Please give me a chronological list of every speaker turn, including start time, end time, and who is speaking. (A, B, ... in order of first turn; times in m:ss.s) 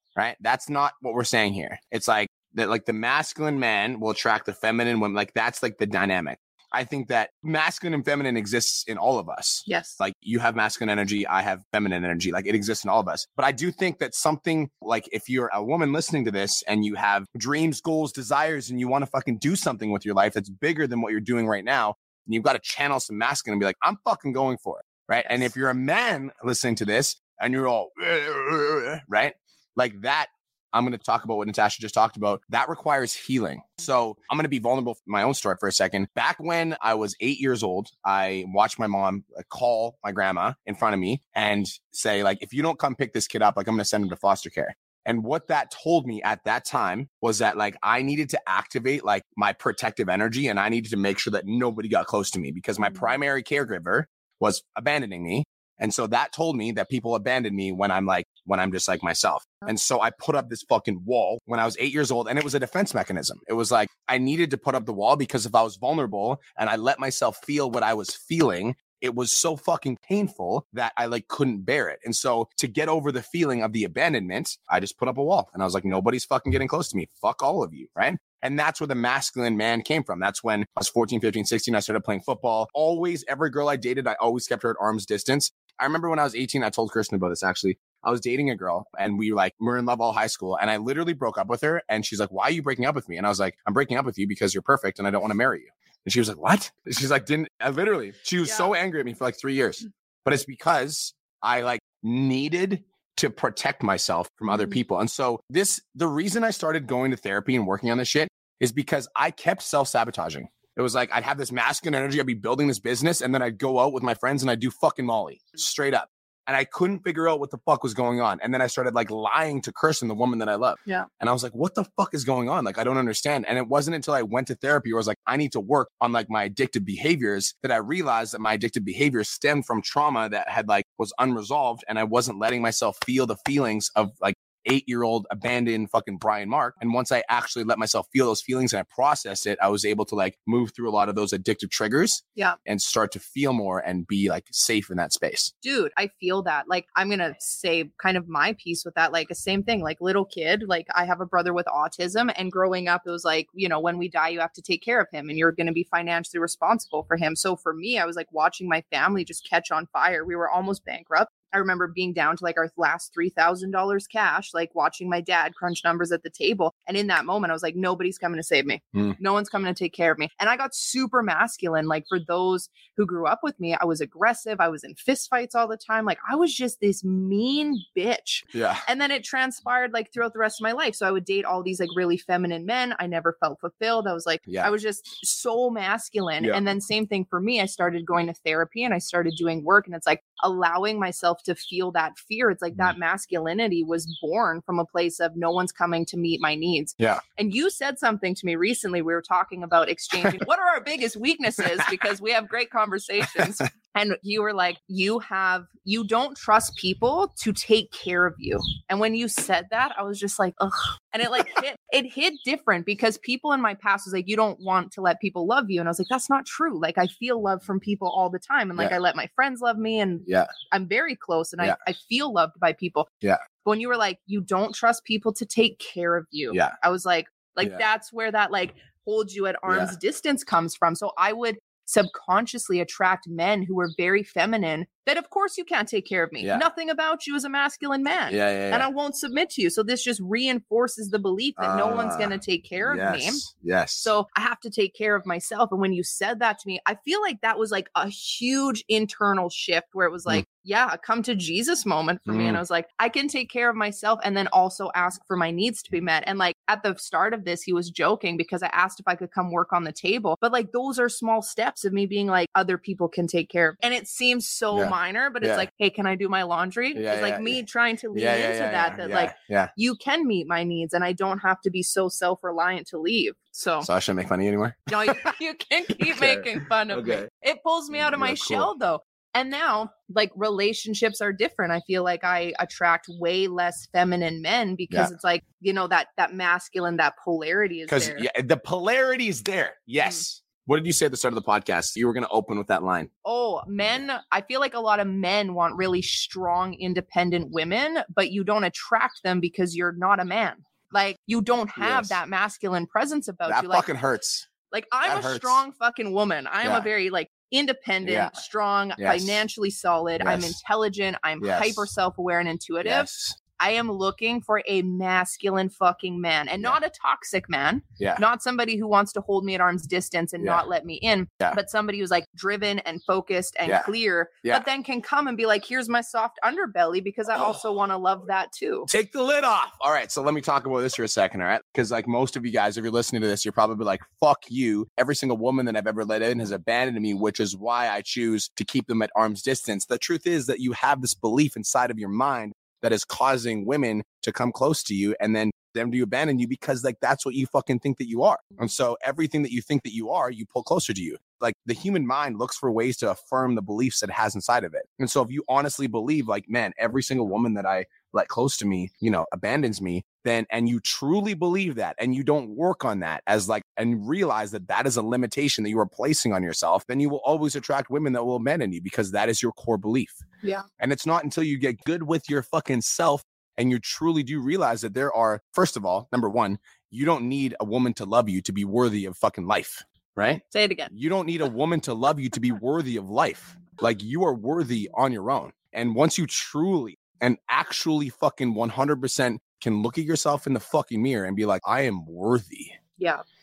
0:00.2-2:25.5 A
0:09.7-0:10.0 B
2:25.6-3:43.1 B
2:58.5-2:58.8 A
3:04.5-3:04.7 A
3:23.4-3:23.6 A
3:40.3-3:40.5 A
3:43.6-4:03.4 B
3:49.7-3:49.9 A
3:56.4-3:56.7 A
3:58.3-3:58.9 A
4:01.6-4:04.1 A
4:04.0-4:33.9 B
4:12.3-4:12.6 A
4:24.7-4:25.7 A
4:26.9-4:27.6 A
4:28.1-4:29.7 A
4:33.8-4:35.3 A
4:34.9-4:48.3 B
4:36.1-4:37.3 A
4:38.0-4:38.7 A
4:47.9-4:53.1 A
4:53.2-5:03.9 B
5:01.8-5:02.2 A
5:03.5-5:04.5 A
5:04.7-5:13.1 B
5:05.0-5:05.6 A
5:06.6-5:06.9 A
5:08.0-5:08.4 A
5:09.0-5:09.4 A
5:10.2-5:10.6 A
5:11.4-5:11.9 A
5:12.8-5:13.4 A
5:13.6-5:28.9 B
5:28.9-6:10.2 A
6:10.8-6:32.8 A
6:20.5-6:20.9 B